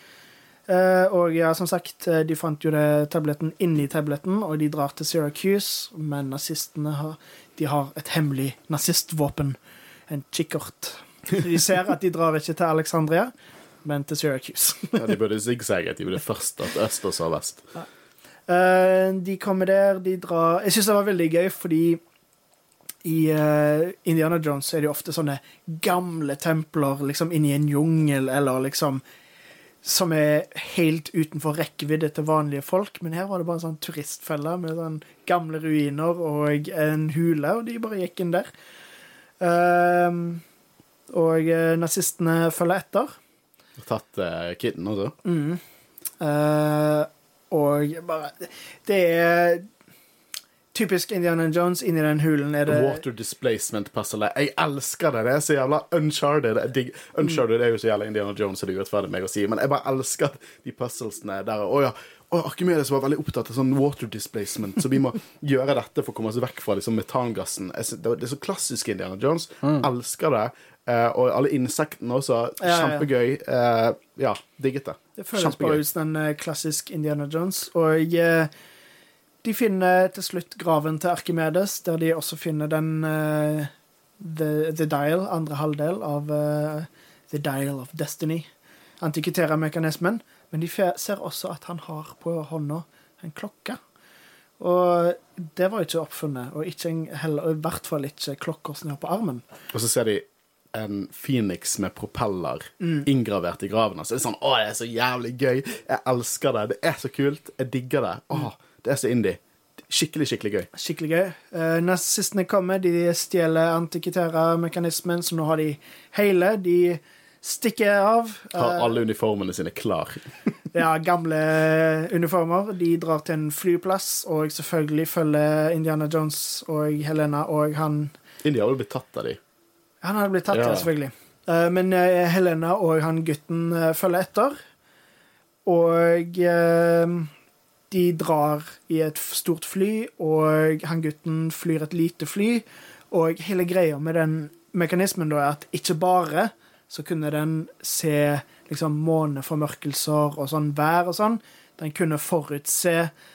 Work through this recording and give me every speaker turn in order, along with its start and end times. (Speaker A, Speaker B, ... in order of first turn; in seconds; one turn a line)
Speaker A: 0.7-9.6
Speaker A: 10.1-13.3
Speaker A: 13.8-15.1
Speaker B: 15.0-17.6
Speaker A: 18.5-22.0
Speaker A: 23.0-29.0
Speaker A: 29.8-38.5
Speaker A: 39.4-40.4
Speaker A: 41.1-43.1
Speaker B: 43.8-45.1
Speaker A: 45.2-45.6
Speaker A: 46.2-49.7
Speaker A: 50.7-53.0
Speaker B: 52.6-75.8
Speaker A: 72.6-73.1
Speaker A: 75.2-78.5
Speaker A: 79.4-88.5
Speaker A: 89.0-93.8
Speaker A: 94.6-99.4
Speaker B: 99.7-110.7
Speaker A: 102.8-103.1
Speaker A: 110.7-118.9
Speaker B: 118.5-120.2
Speaker A: 120.7-128.1
Speaker B: 128.4-129.4
Speaker A: 130.0-134.6
Speaker B: 130.5-130.9
Speaker A: 135.7-137.3
Speaker A: 137.9-153.1